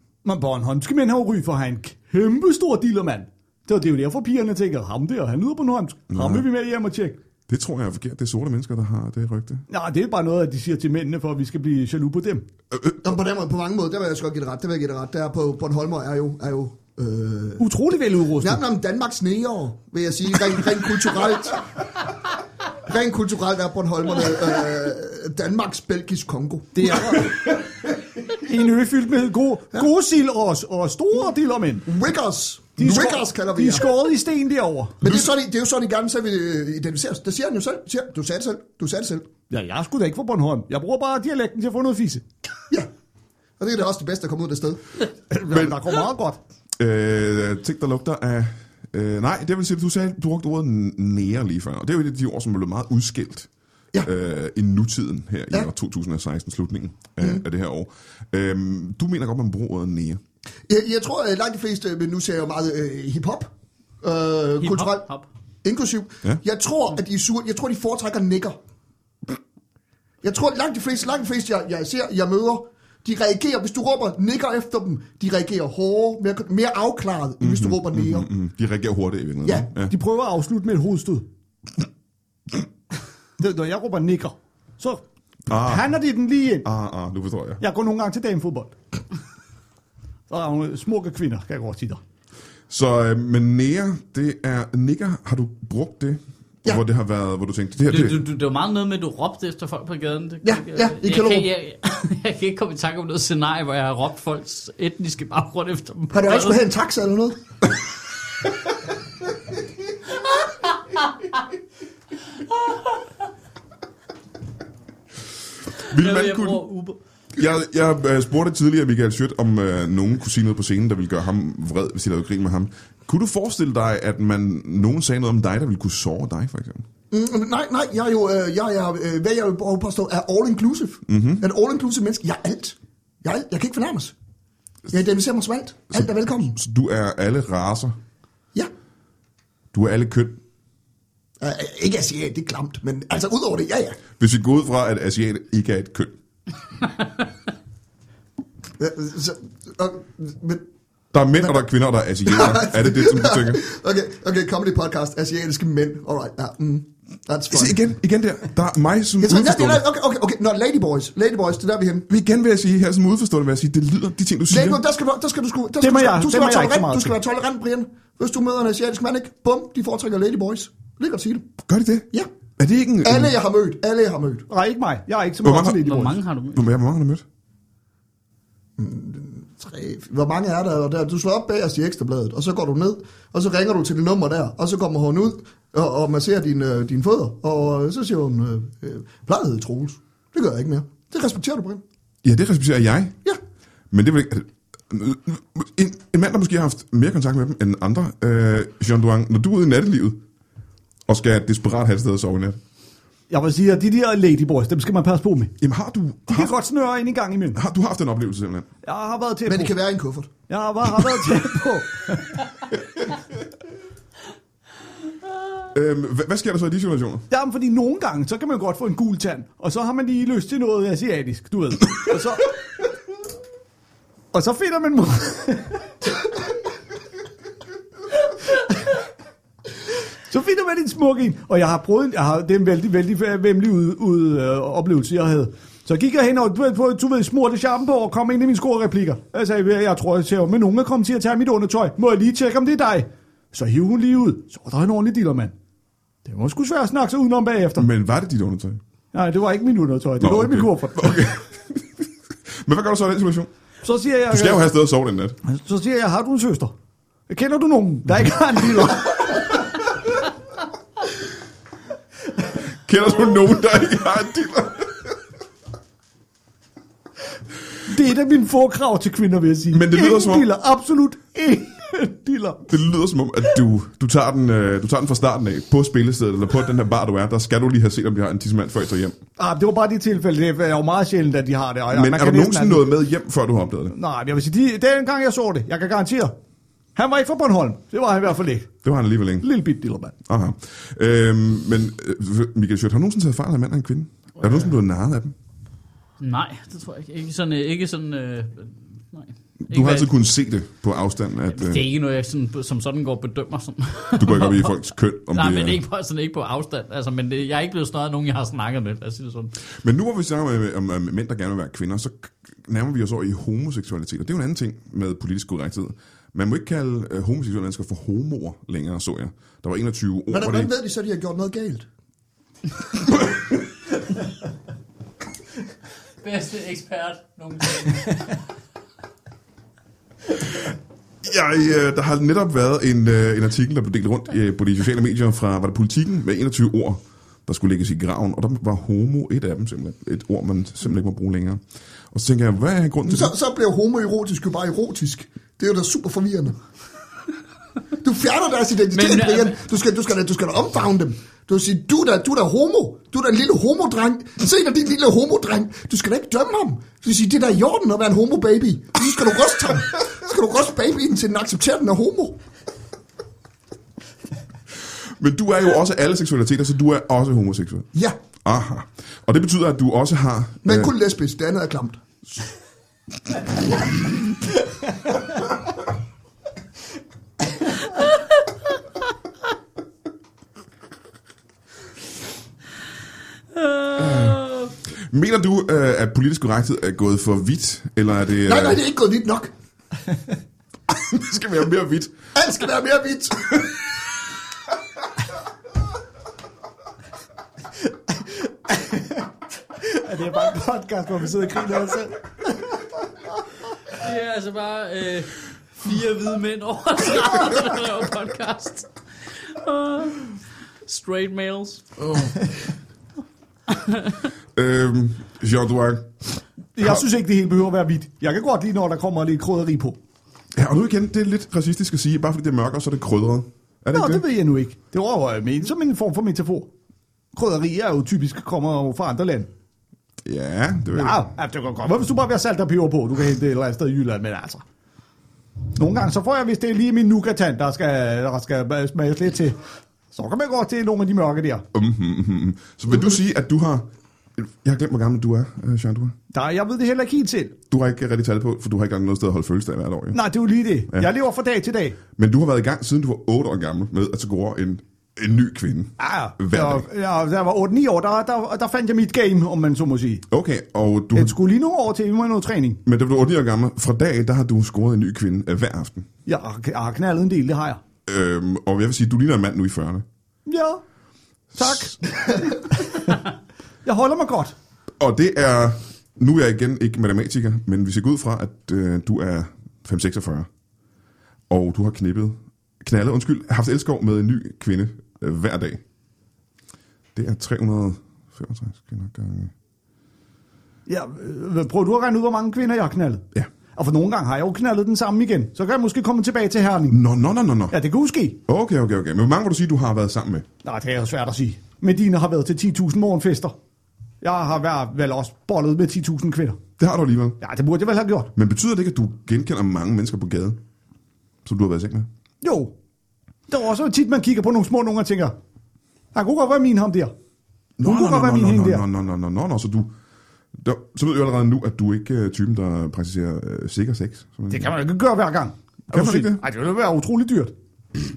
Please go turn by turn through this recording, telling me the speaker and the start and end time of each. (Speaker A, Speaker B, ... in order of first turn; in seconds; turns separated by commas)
Speaker A: 0.2-7.2, Speaker B: 6.1-6.5, Speaker B: 7.5-9.6, Speaker A: 9.7-12.4, Speaker B: 12.7-13.0, Speaker C: 13.0-17.6, Speaker A: 17.6-18.6, Speaker C: 18.4-21.7, Speaker C: 22.9-27.3, Speaker A: 26.7-27.4, Speaker A: 28.3-31.9, Speaker C: 31.9-33.9, Speaker A: 32.8-35.2, Speaker C: 35.0-39.3, Speaker A: 39.5-42.2, Speaker C: 43.6-44.8, Speaker A: 45.3-46.4, Speaker B: 45.5-45.8, Speaker B: 46.8-53.5, Speaker B: 54.0-60.2, Speaker C: 60.7-63.5, Speaker C: 64.0-65.1, Speaker D: 64.6-65.3, Speaker C: 65.6-68.6, Speaker C: 70.2-78.3, Speaker B: 77.4-79.9, Speaker A: 79.9-81.2, Speaker A: 83.4-86.7, Speaker B: 85.5-85.9, Speaker B: 86.6-87.6, Speaker A: 87.6-88.7, Speaker A: 90.3-92.0, Speaker B: 92.7-98.2, Speaker D: 97.9-106.6, Speaker C: 100.4-101.5, Speaker C: 106.1-107.4, Speaker B: 115.8-116.6, Speaker D: 115.9-117.0, Speaker B: 117.4-126.8, Speaker C: 127.1-134.1, Speaker B: 131.1-131.4, Speaker C: 134.9-136.6, Speaker B: 135.9-137.9, Speaker B: 139.7-140.4, Speaker C: 141.4-144.0, Speaker B: 144.2-146.1, Speaker C: 148.8-150.7, Speaker B: 151.1-153.6, Speaker C: 152.2-157.8, Speaker B: 157.5-159.8, Speaker C: 159.2-162.1, Speaker B: 162.1-164.8, Speaker C: 164.5-171.5, Speaker A: 165.8-167.1, Speaker B: 171.6-173.3, Speaker C: 173.0-174.5, Speaker A: 174.5-176.2, Speaker B: 175.4-175.9, Speaker D: 175.8-176.6, Speaker B: 176.5-177.2, Speaker C: 178.8-191.8, Speaker B: 192.2-193.2, Speaker B: 193.9-200.2, Speaker B: 201.1-202.6, Speaker A: 203.3-205.6, Speaker B: 205.6-206.5, Speaker A: 206.3-207.6, Speaker B: 207.5-208.7, Speaker A: 208.8-209.7, Speaker C: 209.4-210.3, Speaker A: 210.5-212.4, Speaker B: 215.7-217.2, Speaker A: 217.3-222.5, Speaker A: 224.3-226.2, Speaker A: 230.3-245.5, Speaker A: 246.2-247.9, Speaker B: 247.8-248.8, Speaker A: 249.1-251.3, Speaker B: 250.2-252.1, Speaker B: 252.6-253.5, Speaker A: 253.8-254.7, Speaker B: 254.3-255.4, Speaker A: 255.4-256.7, Speaker A: 257.3-259.7, Speaker B: 262.7-265.1, Speaker A: 267.9-272.6, Speaker B: 269.7-270.5, Speaker B: 272.7-279.2, Speaker A: 279.4-282.9, Speaker B: 281.9-283.9, Speaker A: 283.9-286.4, Speaker A: 286.9-288.7, Speaker B: 288.8-289.5, Speaker A: 289.4-290.1, Speaker B: 290.2-295.3, Speaker D: 296.2-300.1, Speaker B: 299.6-301.9, Speaker D: 301.5-304.8, Speaker B: 304.2-305.8, Speaker D: 305.3-309.5, Speaker B: 309.8-320.7, Speaker C: 320.3-321.9, Speaker D: 326.2-328.4, Speaker B: 331.2-341.6, Speaker B: 342.1-343.3, Speaker C: 343.1-346.6, Speaker C: 348.0-362.4, Speaker D: 348.9-349.6, Speaker B: 365.2-367.9, Speaker B: 368.4-370.9, Speaker C: 370.6-372.0, Speaker D: 383.5-384.7, Speaker B: 384.0-384.4, Speaker B: 385.1-388.8, Speaker C: 388.4-389.5, Speaker B: 390.9-392.1, Speaker C: 392.3-393.7, Speaker A: 397.9-402.9, Speaker D: 403.9-412.3, Speaker B: 414.6-416.3, Speaker A: 416.8-420.0, Speaker B: 420.6-424.2, Speaker A: 423.9-426.7, Speaker A: 427.3-429.5, Speaker B: 430.2-431.3, Speaker A: 430.9-434.6, Speaker A: 435.7-439.6, Speaker A: 440.1-441.6, Speaker B: 441.7-446.1, Speaker A: 446.3-447.6, Speaker B: 447.7-450.2, Speaker A: 450.1-452.0, Speaker B: 452.2-456.8, Speaker A: 456.0-460.3, Speaker B: 460.3-461.4, Speaker A: 461.1-462.8, Speaker B: 462.8-466.1, Speaker A: 466.3-467.8, Speaker B: 468.1-470.1, Speaker A: 470.4-470.8, Speaker B: 471.5-471.9, Speaker A: 471.6-473.2, Speaker A: 473.8-474.6, Speaker B: 475.0-480.5, Speaker B: 481.5-485.8, Speaker B: 487.1-489.5, Speaker A: 490.9-497.0, Speaker B: 496.9-497.8, Speaker A: 497.7-498.4, Speaker B: 498.4-500.4, Speaker A: 500.6-503.6, Speaker A: 504.2-506.6, Speaker B: 506.8-507.4, Speaker A: 507.4-508.3, Speaker B: 508.3-510.6, Speaker B: 511.4-512.1, Speaker A: 512.4-512.7, Speaker A: 513.5-515.3, Speaker A: 516.1-517.1, Speaker B: 517.8-519.9, Speaker A: 517.8-518.8, Speaker B: 520.6-524.7, Speaker A: 524.5-527.5, Speaker B: 525.9-526.4